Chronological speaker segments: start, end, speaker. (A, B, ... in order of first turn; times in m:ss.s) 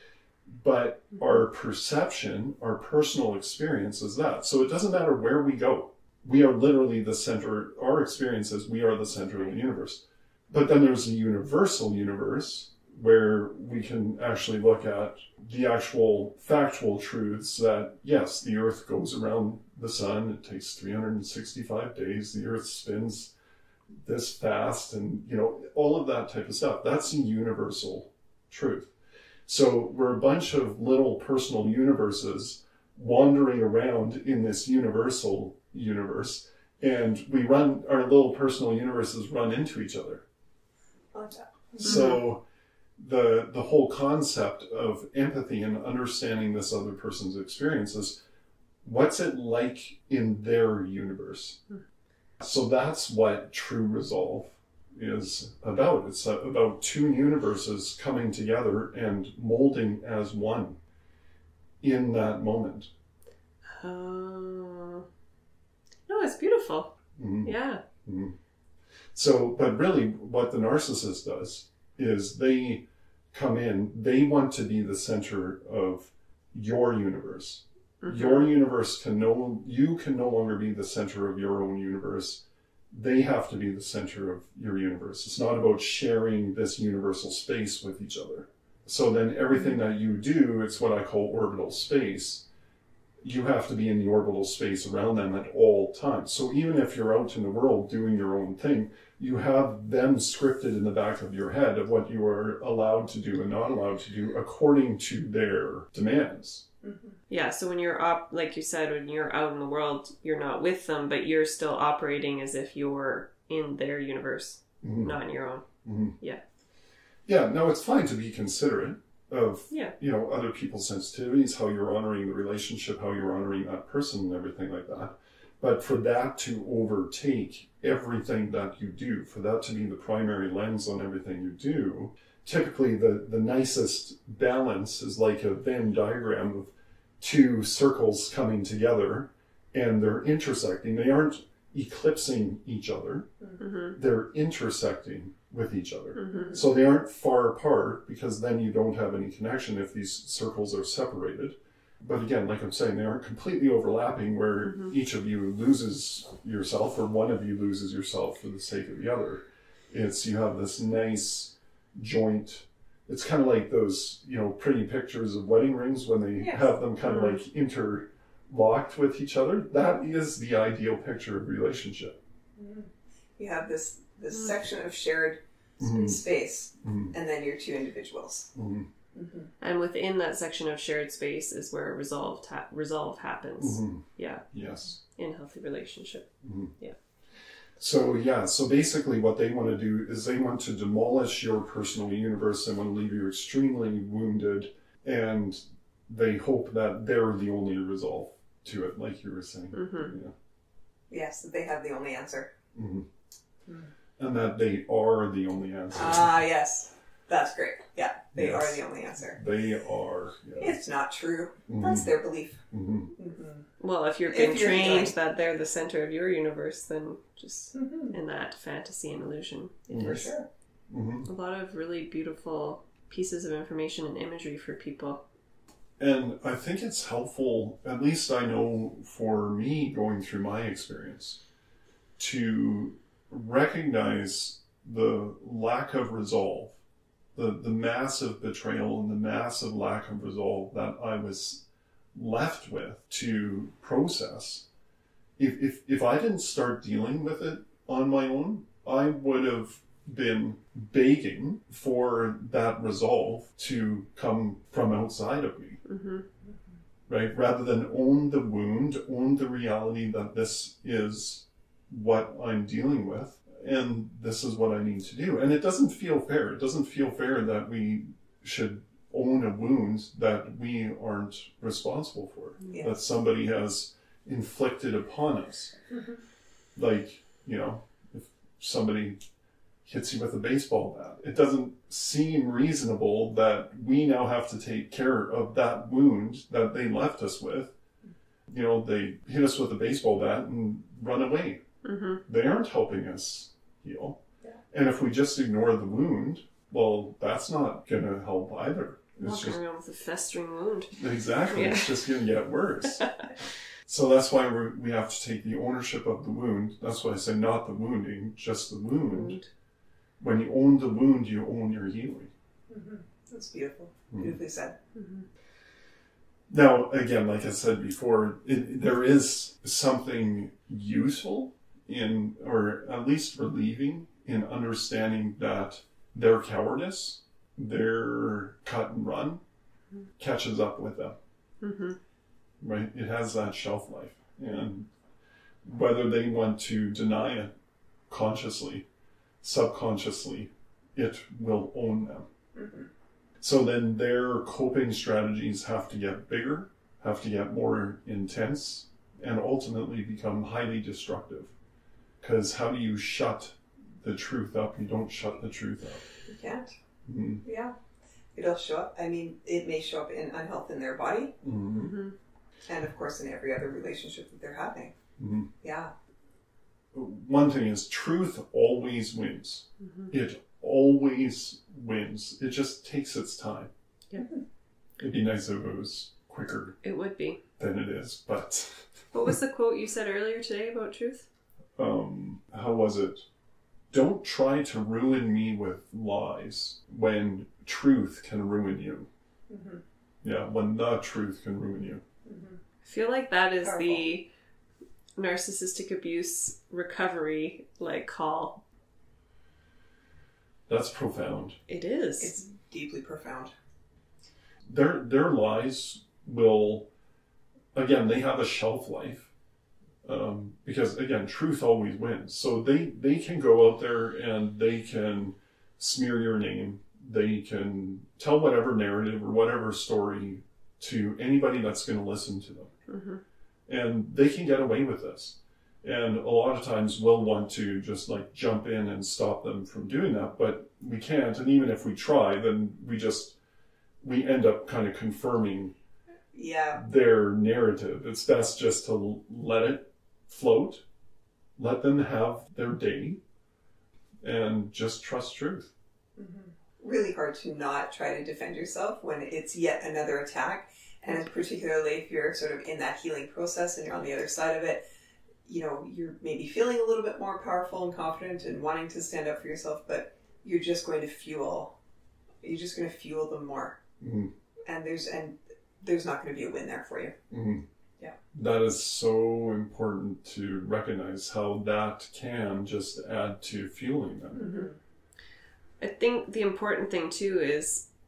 0:00.5-0:23.3 A
0:24.0-0:28.9 A
0:29.5-0:40.2 A
0:41.1-0:42.1 B
0:41.8-0:42.4 A
0:41.8-0:42.2 C
0:43.0-0:48.2 A
0:48.8-0:51.6 A
0:52.4-1:00.8 A
1:01.8-1:02.9 A
1:03.8-1:05.1 C
1:06.1-1:06.9 C
1:07.2-1:07.5 A
1:07.4-1:07.8 C
1:08.0-1:08.4 A
1:09.1-1:32.4 A
1:18.0-1:18.5 C
1:33.2-1:46.6 A
1:46.8-1:47.2 B
1:47.3-1:55.6 C
1:54.8-1:55.2 A
1:55.8-1:56.2 A
1:57.3-2:23.3 A
2:23.6-2:24.0 C
2:24.0-2:52.2 A
2:26.2-2:26.6 C
2:26.3-2:26.6 B
2:46.4-2:46.7 B
2:47.0-2:47.4 C
2:52.6-2:58.5 B
2:55.8-2:56.2 A
2:56.8-2:57.1 A
2:58.6-2:58.9 A
2:59.1-2:59.5 B
2:59.6-3:04.4 C
3:03.6-3:05.0 A
3:05.2-3:06.3 C
3:06.4-3:06.7 A
3:07.8-3:20.3 A
3:19.7-3:20.1 C
3:21.1-3:22.5 B
3:22.7-3:23.1 A
3:23.7-3:23.9 B
3:24.2-3:26.4 A
3:25.9-3:29.4 B
3:28.3-3:30.8 A
3:30.6-3:32.6 B
3:31.7-3:32.1 A
3:32.7-3:33.1 A
3:33.2-3:33.7 B
3:33.8-3:40.3 C
3:34.3-3:35.2 B
3:37.7-3:38.2 B
3:39.9-3:40.3 A
3:39.9-3:40.5 B
3:40.9-3:41.3 A
3:41.3-3:45.2 C
3:46.0-3:51.4 A
3:52.2-3:56.8 A
3:57.4-4:04.7 A
4:05.4-4:15.8 A
4:15.8-4:16.3 C
4:17.1-4:35.7 A
4:36.8-4:39.2 A
4:39.8-4:47.7 A
4:48.5-4:51.6 A
4:51.8-4:52.2 C
4:52.3-4:54.2 A
4:54.7-4:59.6 A
4:59.2-5:02.2 C
5:01.0-5:03.1 A
5:03.9-5:09.4 A
5:09.0-5:09.5 C
5:10.2-5:12.3 A
5:12.7-5:14.8 B
5:15.0-5:15.3 C
5:16.5-5:29.4 A
5:30.2-5:31.2 A
5:31.6-5:32.0 C
5:32.6-5:34.9 A
5:35.6-5:37.5 A
5:38.1-5:38.8 A
5:39.4-5:42.3 A
5:42.6-5:42.9 B
5:43.4-5:51.5 A
5:52.2-5:56.0 A
5:56.2-5:56.7 B
5:57.1-5:57.4 A
5:57.4-5:57.8 B
5:58.4-6:01.3 B
6:01.4-6:01.9 A
6:01.8-6:02.2 C
6:02.7-6:04.9 B
6:05.2-6:05.5 A
6:05.6-6:05.9 B
6:06.9-6:13.7 A
6:09.8-6:10.1 C
6:15.0-6:16.8 A
6:16.8-6:17.4 C
6:17.6-6:19.0 A
6:19.1-6:21.3 C
6:21.8-6:23.2 A
6:23.9-6:29.1 A
6:29.5-6:29.8 B
6:30.2-6:32.0 A
6:32.2-6:32.6 B
6:32.8-6:34.3 C
6:33.6-6:34.1 B
6:35.2-6:38.6 C
6:40.7-6:41.6 A
6:41.7-6:42.3 C
6:42.2-6:43.5 B
6:44.7-6:46.9 A
6:47.8-6:49.3 A
6:50.0-7:02.7 A
7:02.9-7:03.2 C
7:03.7-7:13.4 A
7:14.0-7:15.7 A
7:16.3-7:16.8 B
7:16.8-7:20.8 A
7:21.6-7:23.2 A
7:24.2-7:25.7 A
7:26.2-7:34.8 B
7:35.5-7:41.7 B
7:42.4-7:43.8 B
7:44.0-7:44.3 A
7:44.7-7:47.2 B
7:47.3-7:47.6 A
7:48.3-7:54.5 A
7:54.3-7:54.8 B
7:54.4-7:54.7 C
7:55.8-7:57.8 C